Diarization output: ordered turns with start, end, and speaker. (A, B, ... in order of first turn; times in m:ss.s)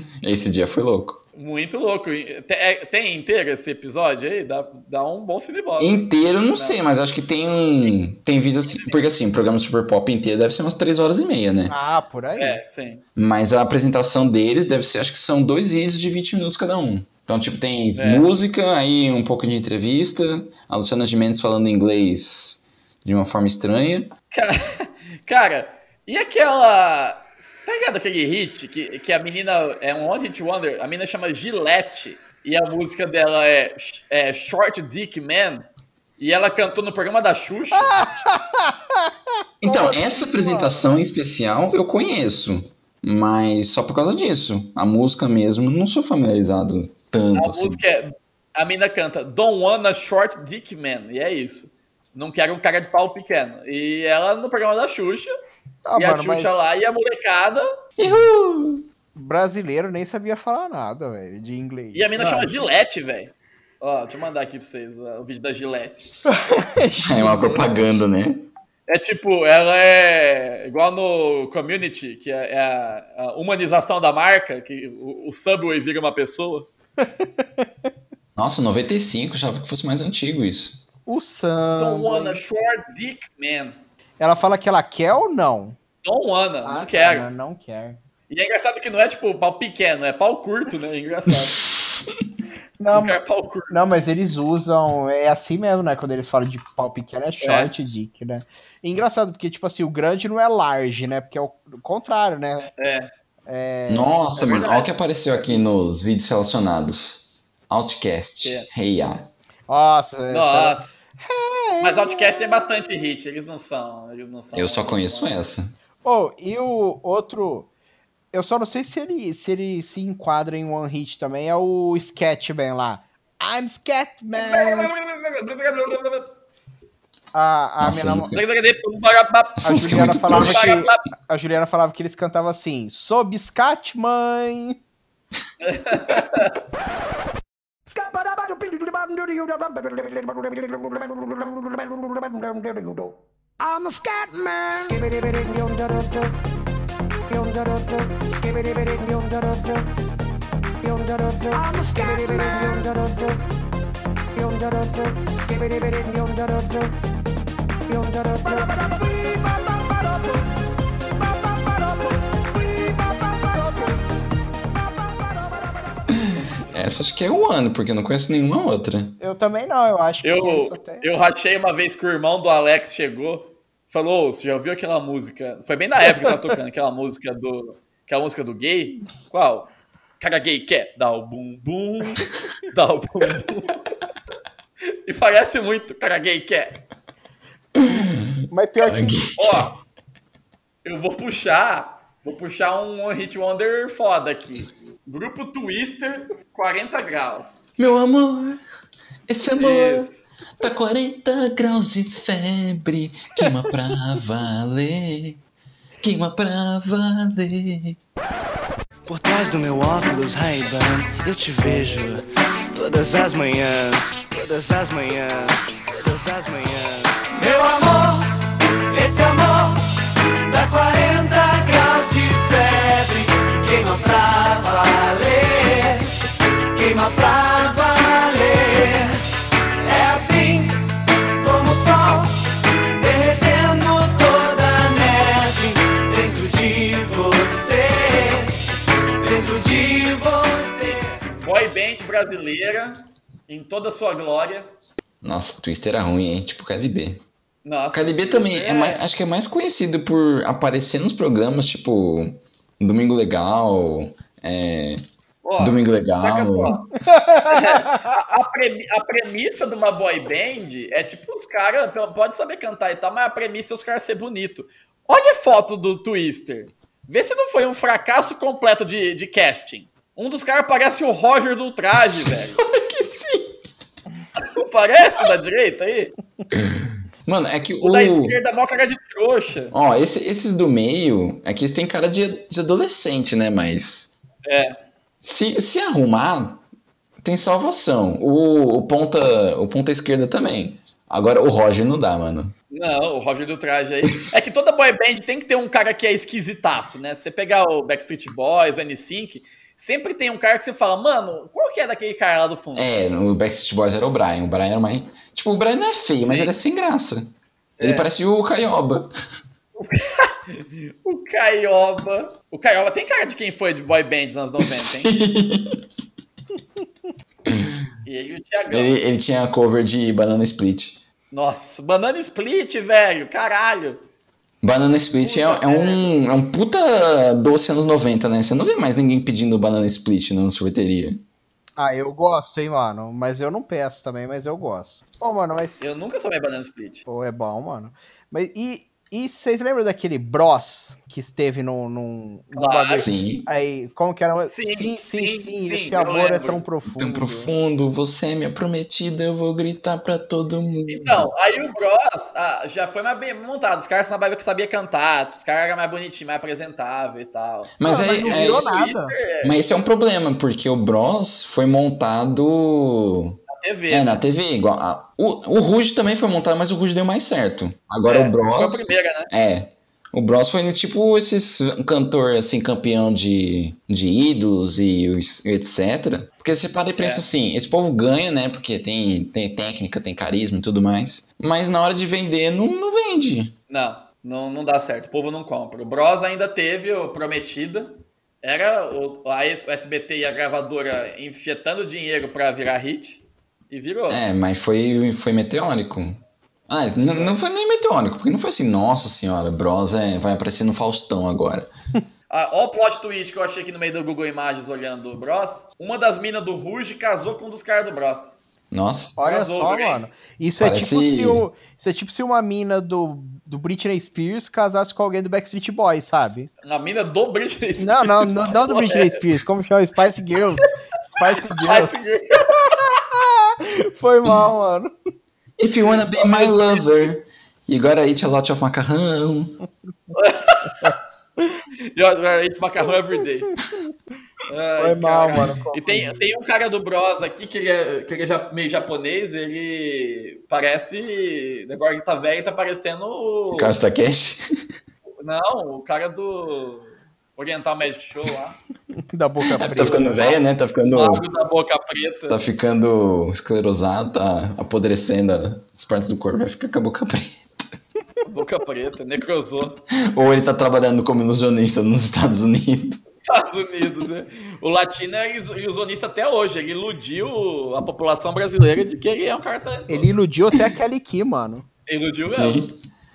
0:00.2-0:01.2 A
0:01.4-0:06.8 B
0:05.8-0:11.7 A
0:08.6-0:09.0 B
0:11.7-0:12.6 C
0:12.4-0:13.0 B
0:13.2-0:24.1 A
0:18.0-0:18.3 B
0:24.3-0:35.7 B
0:36.2-0:38.1 B
0:37.7-0:39.1 C
0:39.6-0:47.8 A
0:39.6-0:40.9 C
0:47.3-0:55.3 B
0:55.8-0:56.7 C
0:56.0-0:57.7 B
0:58.0-0:58.8 A
0:59.1-1:02.6 C
1:02.0-1:06.1 B
1:06.3-1:07.8 C
1:07.0-1:08.5 A
1:08.9-1:16.7 B
1:17.0-1:17.7 C
1:18.4-1:20.8 A
1:21.0-1:22.4 C
1:21.8-1:23.8 B
1:24.2-1:25.8 C
1:26.0-1:27.3 B
1:26.6-1:28.0 C
1:28.3-1:31.6 B
1:32.8-1:42.7 C
1:32.9-1:33.9 B
1:37.4-1:37.7 B
1:42.8-1:43.1 B
1:43.4-1:44.1 C
1:43.9-1:49.3 A
1:44.4-1:44.9 B
1:48.4-1:48.7 B
1:49.7-1:52.7 C
1:50.3-1:51.0 B
1:51.8-1:55.4 B
1:54.5-1:55.7 A
1:56.0-1:57.7 C
1:58.3-2:04.9 C
2:04.3-2:06.3 B
2:07.3-2:08.3 C
2:07.8-2:08.4 A
2:08.3-2:09.7 B
2:09.6-2:10.7 A
2:09.6-2:14.8 C
2:10.3-2:11.0 B
2:15.6-2:16.6 B
2:17.9-2:26.3 D
2:27.3-2:29.9 D
2:30.8-2:33.4 D
2:34.3-2:37.0 D
2:37.9-2:40.5 D
2:41.2-2:44.0 D
2:44.9-2:46.0 D
2:46.7-2:49.2 A
2:49.2-2:51.0 C
2:50.2-3:03.7 B
3:05.0-3:06.8 B
3:07.8-3:09.7 A
3:08.5-3:09.2 C
3:09.4-3:09.7 B
3:10.8-3:17.7 B
3:17.8-3:18.6 A
3:19.3-3:25.4 A
3:19.6-3:20.2 B
3:26.0-3:28.0 A
3:41.7-3:42.5 E
3:43.8-3:45.5 E
3:46.8-3:47.3 E
3:56.1-3:56.6 E
3:57.1-3:57.7 E
4:00.8-4:04.7 B
4:05.2-4:07.2 A
4:07.6-4:09.0 B
4:07.9-4:15.0 A
4:15.4-4:16.9 B
4:15.6-4:16.9 A
4:17.2-4:17.5 C
4:17.4-4:32.6 B
4:32.6-4:33.5 A
4:34.4-4:36.2 B
4:36.6-4:38.4 A
4:37.8-4:39.7 B
4:39.7-4:44.1 A
4:44.4-4:44.8 B
4:45.2-4:46.6 A
4:47.2-4:52.5 A
4:52.7-5:02.9 B
5:02.8-5:09.1 A
5:06.2-5:06.5 B
5:07.8-5:08.1 B
5:09.8-5:15.1 B
5:14.6-5:15.8 A
5:17.5-5:17.9 A
5:18.0-5:18.9 B
5:18.7-5:21.0 A
5:21.3-5:24.0 B
5:24.6-5:31.2 A
5:25.2-5:26.1 B
5:31.8-5:35.9 C
5:35.8-5:37.0 B
5:37.0-5:47.5 C
5:42.6-5:43.1 B
5:43.0-5:43.4 A
5:44.4-5:46.7 B
5:46.9-5:51.3 A
5:50.9-5:59.6 B
5:57.8-5:58.7 A
5:57.9-5:59.1 C
5:59.4-6:23.6 A
6:03.5-6:04.2 B
6:08.0-6:09.3 B
6:17.0-6:17.2 B
6:23.7-6:34.2 B
6:34.1-6:41.7 A
6:37.0-6:37.4 B
6:42.3-6:48.4 B
6:48.7-6:49.2 A
6:49.2-6:56.5 C
6:49.2-6:50.0 B
6:50.6-6:51.4 A
6:56.6-6:59.2 B
6:57.8-7:02.0 C
7:01.6-7:02.4 B
7:02.6-7:04.9 C
7:05.6-7:09.6 A
7:06.2-7:06.8 B
7:10.1-7:10.9 B
7:11.9-7:13.5 B
7:14.5-7:23.7 B
7:14.8-7:16.2 C
7:23.5-7:24.4 A
7:25.2-7:28.6 B
7:29.1-7:30.2 C
7:29.5-7:31.2 A
7:29.8-7:32.4 B
7:32.3-7:37.4 A
7:38.3-7:39.8 B
7:40.1-7:43.0 A
7:43.3-7:50.1 B
7:49.9-7:51.7 C
7:51.9-7:52.7 B
7:52.3-7:52.7 A